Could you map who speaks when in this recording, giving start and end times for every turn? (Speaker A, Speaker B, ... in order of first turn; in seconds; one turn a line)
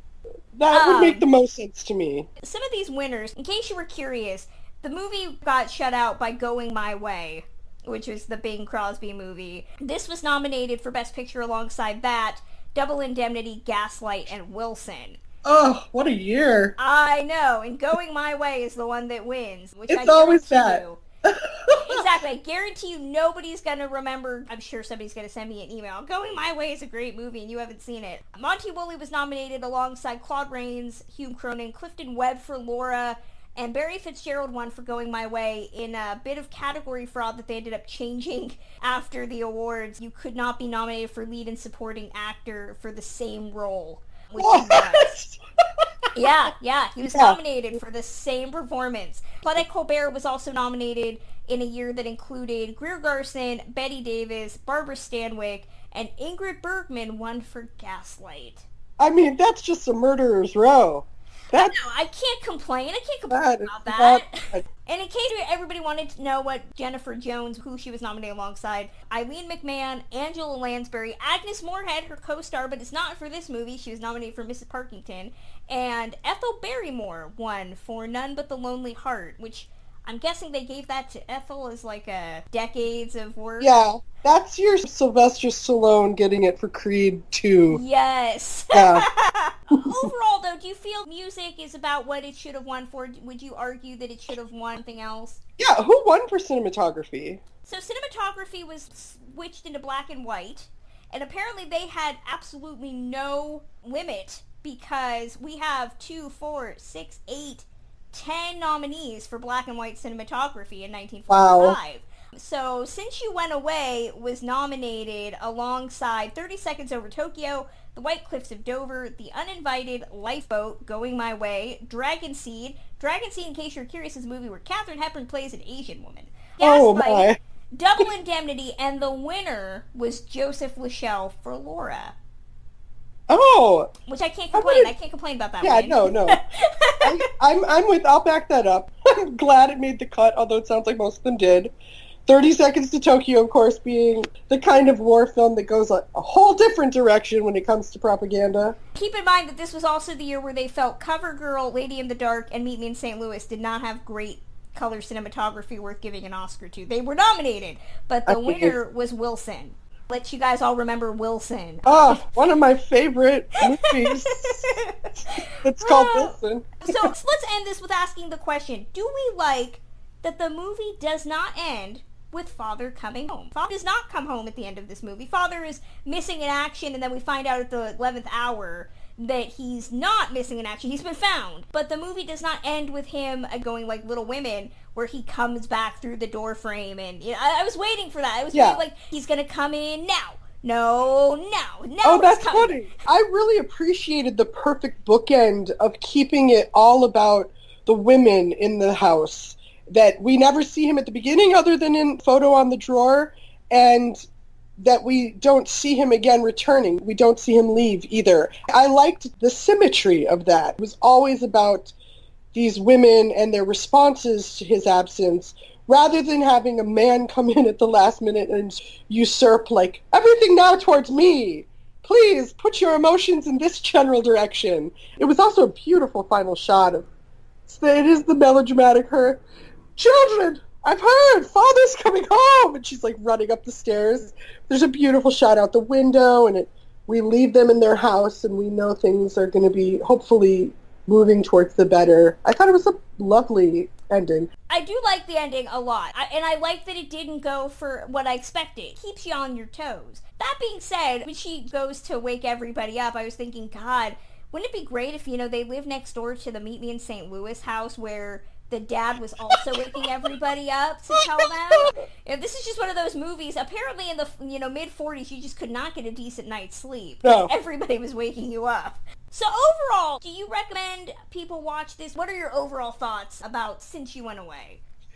Speaker A: 0.6-2.3
Speaker B: 0.7-1.2
Speaker B: 2.4-15.2
Speaker A: 15.4-16.7
Speaker B: 16.8-21.0
Speaker A: 19.9-22.0
Speaker B: 21.8-45.2
Speaker A: 44.4-45.9
Speaker B: 46.1-58.6
Speaker A: 47.1-47.4
Speaker A: 59.0-61.8
Speaker B: 61.5-83.8
Speaker A: 63.3-64.6
Speaker A: 83.6-87.8
Speaker B: 87.7-95.4
Speaker A: 88.7-89.1
Speaker A: 95.6-97.4
Speaker B: 97.7-132.1
Speaker A: 111.3-111.8
Speaker A: 126.6-127.4
Speaker A: 133.3-133.9
Speaker B: 134.1-137.1
Speaker A: 134.5-134.9
Speaker A: 135.6-136.4
Speaker A: 137.0-141.7
Speaker A: 142.2-148.8
Speaker B: 148.9-162.4
Speaker A: 158.3-158.8
Speaker A: 161.8-164.7
Speaker B: 163.7-192.9
Speaker A: 165.5-167.1
Speaker A: 188.5-188.8
Speaker A: 192.0-204.2
Speaker A: 204.8-211.9
Speaker A: 212.5-227.1
Speaker A: 227.7-229.4
Speaker A: 230.0-244.5
Speaker B: 244.7-274.8
Speaker A: 259.5-260.0
Speaker A: 261.2-261.9
Speaker A: 267.2-267.5